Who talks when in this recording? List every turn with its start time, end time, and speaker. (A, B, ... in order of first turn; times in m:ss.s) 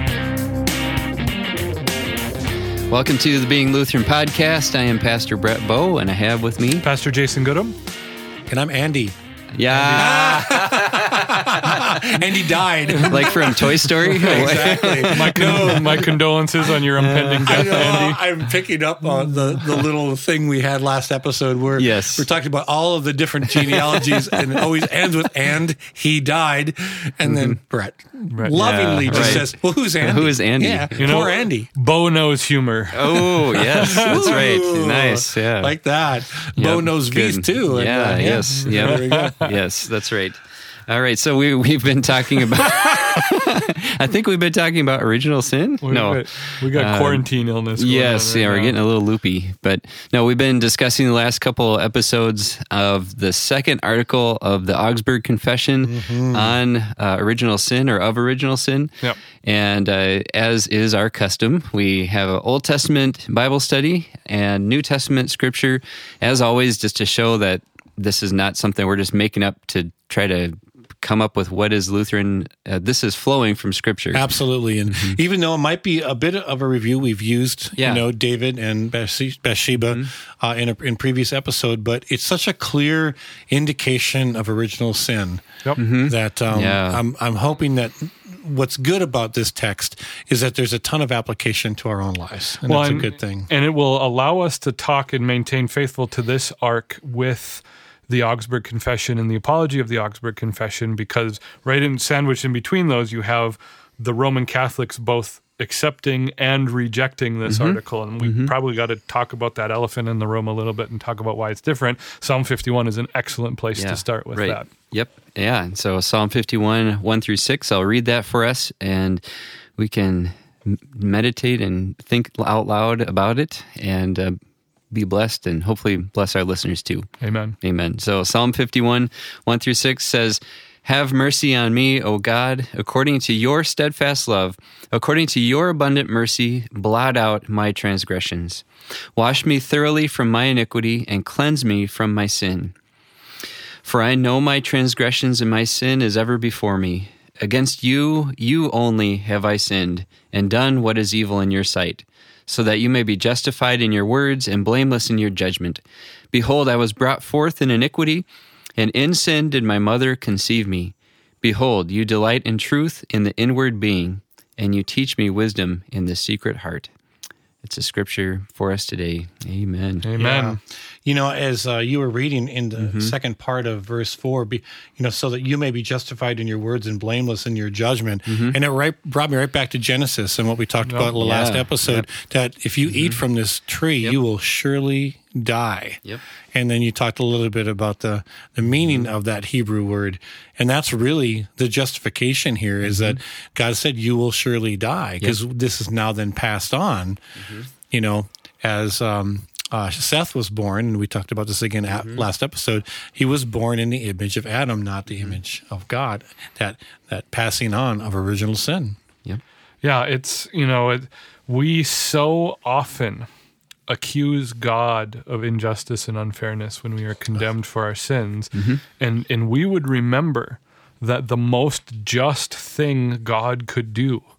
0:02.9-0:06.8 A
0:06.8-0:07.8 B
0:08.5-0:09.2 C
0:09.5-0:12.2 A
0:09.7-0:16.1 C
0:12.9-0:18.2 B
0:13.1-0:16.1 A
0:17.0-0:18.0 A
0:17.4-0:31.7 C
0:21.8-0:22.3 A
0:23.6-0:24.0 A
0:27.2-0:27.6 A
0:28.3-0:29.5 B
0:28.5-0:29.5 A
0:30.0-0:30.9 A
0:31.0-0:34.4 B
0:32.9-0:35.8 A
0:33.8-0:39.5 C
0:36.6-1:14.3 A
0:38.2-0:39.5 B
0:45.8-0:48.8 B
0:55.8-0:56.6 C
1:14.1-1:25.4 C
1:14.9-1:15.2 A
1:17.8-1:18.1 A
1:25.8-1:27.0 A
1:26.0-1:33.5 C
1:32.6-1:54.7 B
1:47.5-1:48.5 A
1:53.8-1:59.2 A
1:59.8-2:04.4 A
2:04.9-2:07.1 A
2:07.2-2:07.6 B
2:07.6-2:18.6 A
2:19.2-2:22.7 A
2:23.8-2:38.3 A
2:38.8-2:46.9 A
2:47.6-2:50.1 A
2:50.0-2:50.6 B
2:50.2-3:06.0 C
2:52.8-2:53.2 A
2:58.3-2:58.6 A
3:00.8-3:01.2 B
3:01.2-3:02.1 A
3:02.9-3:03.2 A
3:06.5-3:17.2 C
3:12.8-3:13.2 A
3:17.4-3:17.7 A
3:17.8-3:29.0 C
3:21.9-3:22.2 A
3:25.1-3:25.4 A
3:29.8-3:33.3 B
3:33.9-3:44.3 B
3:38.5-3:38.8 A